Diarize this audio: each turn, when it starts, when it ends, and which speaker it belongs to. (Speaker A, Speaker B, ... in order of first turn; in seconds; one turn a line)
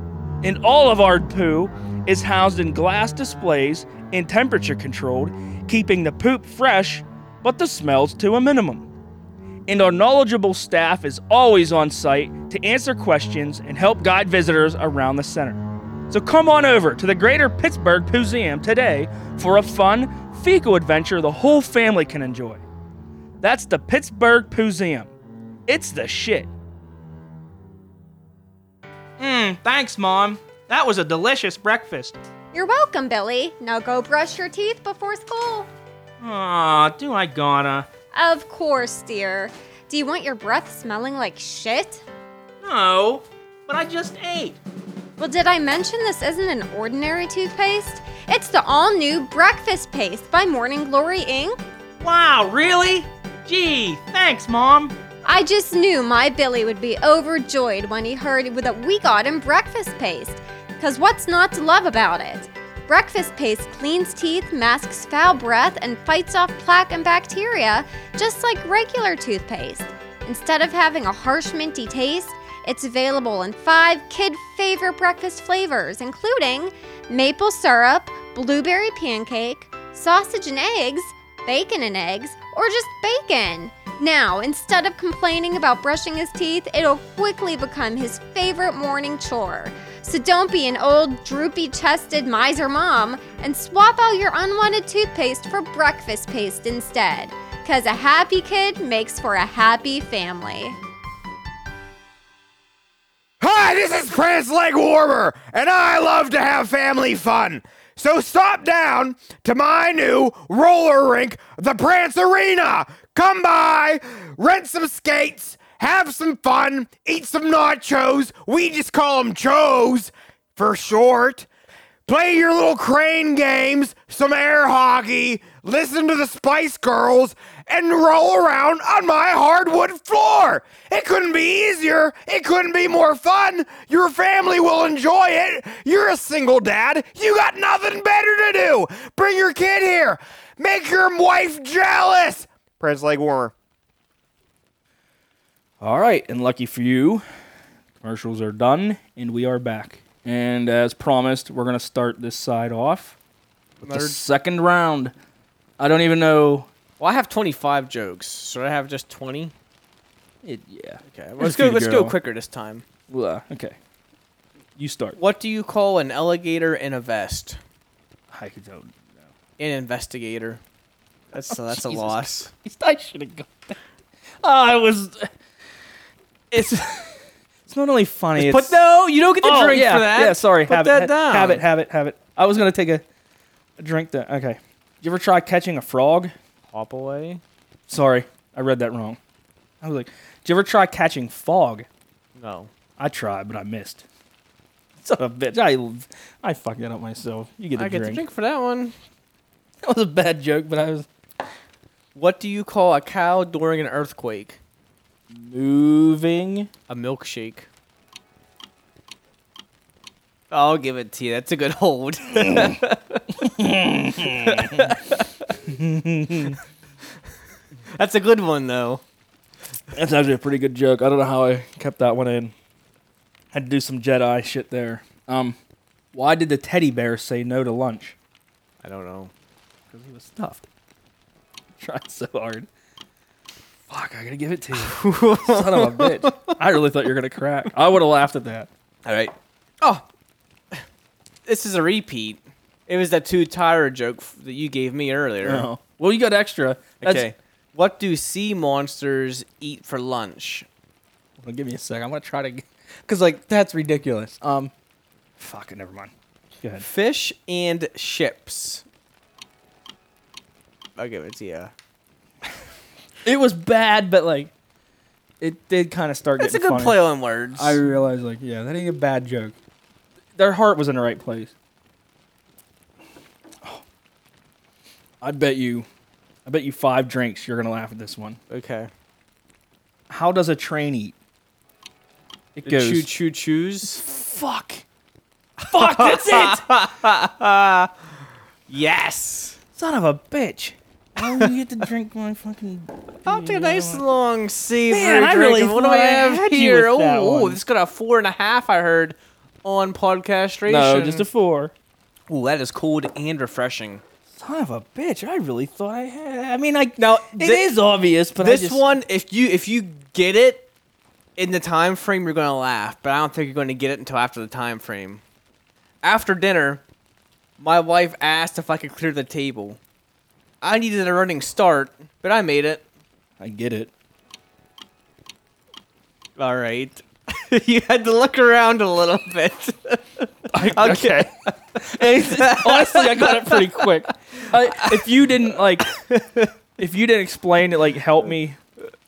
Speaker A: 0.4-8.9
Speaker A: 9.7-22.6
Speaker A: 23.4-25.1
Speaker A: 25.7-26.5
Speaker A: 29.2-32.1
Speaker B: 32.5-35.7
Speaker A: 36.2-37.9
Speaker B: 38.1-42.0
Speaker A: 42.6-44.6
Speaker B: 45.2-51.6
Speaker A: 52.0-54.9
Speaker B: 55.2-100.8
Speaker C: 103.4-121.5
Speaker C: 122.0-143.5
Speaker A: 145.8-147.2
Speaker A: 148.0-153.2
Speaker D: 153.8-154.2
Speaker A: 153.8-155.1
Speaker A: 155.8-156.7
Speaker D: 157.0-159.5
Speaker A: 160.4-162.2
Speaker D: 161.1-162.8
Speaker A: 163.1-163.8
Speaker A: 164.8-165.2
Speaker D: 165.2-167.6
Speaker A: 168.3-169.1
Speaker D: 169.6-170.6
Speaker D: 171.3-172.5
Speaker A: 171.5-173.8
Speaker A: 174.4-175.3
Speaker A: 176.5-177.1
Speaker A: 177.7-178.8
Speaker D: 178.4-181.6
Speaker A: 179.4-183.0
Speaker A: 183.8-186.3
Speaker D: 186.7-187.4
Speaker A: 187.9-189.2
Speaker A: 189.8-191.9
Speaker D: 192.3-192.7
Speaker A: 193.0-194.0
Speaker A: 195.0-198.2
Speaker D: 197.8-198.9
Speaker A: 199.8-201.1
Speaker D: 202.1-204.6
Speaker A: 205.3-206.7
Speaker D: 206.9-207.7
Speaker D: 210.5-213.2
Speaker A: 212.4-212.8
Speaker A: 213.3-214.9
Speaker D: 214.2-215.5
Speaker A: 215.6-216.6
Speaker D: 217.9-219.0
Speaker A: 219.9-222.5
Speaker A: 223.5-225.6
Speaker A: 226.1-228.1
Speaker D: 228.8-229.3
Speaker A: 229.9-230.6
Speaker A: 231.8-232.7
Speaker A: 233.9-238.7
Speaker D: 234.7-236.6
Speaker D: 239.1-240.0
Speaker D: 241.4-245.7
Speaker A: 245.4-247.3
Speaker D: 247.0-250.7
Speaker A: 251.4-254.7
Speaker A: 255.4-256.8
Speaker D: 256.8-258.8
Speaker D: 261.0-261.7
Speaker A: 263.2-264.5
Speaker A: 265.4-267.0
Speaker D: 266.4-267.8
Speaker A: 267.5-269.5
Speaker A: 270.4-271.5
Speaker A: 275.2-275.9
Speaker A: 276.4-278.4
Speaker D: 278.5-278.9
Speaker A: 280.1-281.1
Speaker A: 282.6-283.1
Speaker D: 282.6-284.0
Speaker A: 283.9-284.8
Speaker A: 285.6-286.6
Speaker D: 285.7-288.0
Speaker D: 288.7-289.6
Speaker A: 289.8-294.0
Speaker D: 291.2-291.5
Speaker D: 293.2-301.3
Speaker A: 294.9-297.6
Speaker A: 300.7-301.7
Speaker D: 302.3-304.0
Speaker A: 304.4-308.9
Speaker D: 307.0-307.7
Speaker D: 308.4-310.7
Speaker D: 311.4-315.2
Speaker D: 316.0-316.8
Speaker D: 317.6-319.8
Speaker D: 320.6-322.8
Speaker A: 323.4-323.9
Speaker D: 326.4-331.3
Speaker A: 330.5-335.9
Speaker D: 332.2-335.3
Speaker D: 335.9-336.5
Speaker A: 336.8-338.6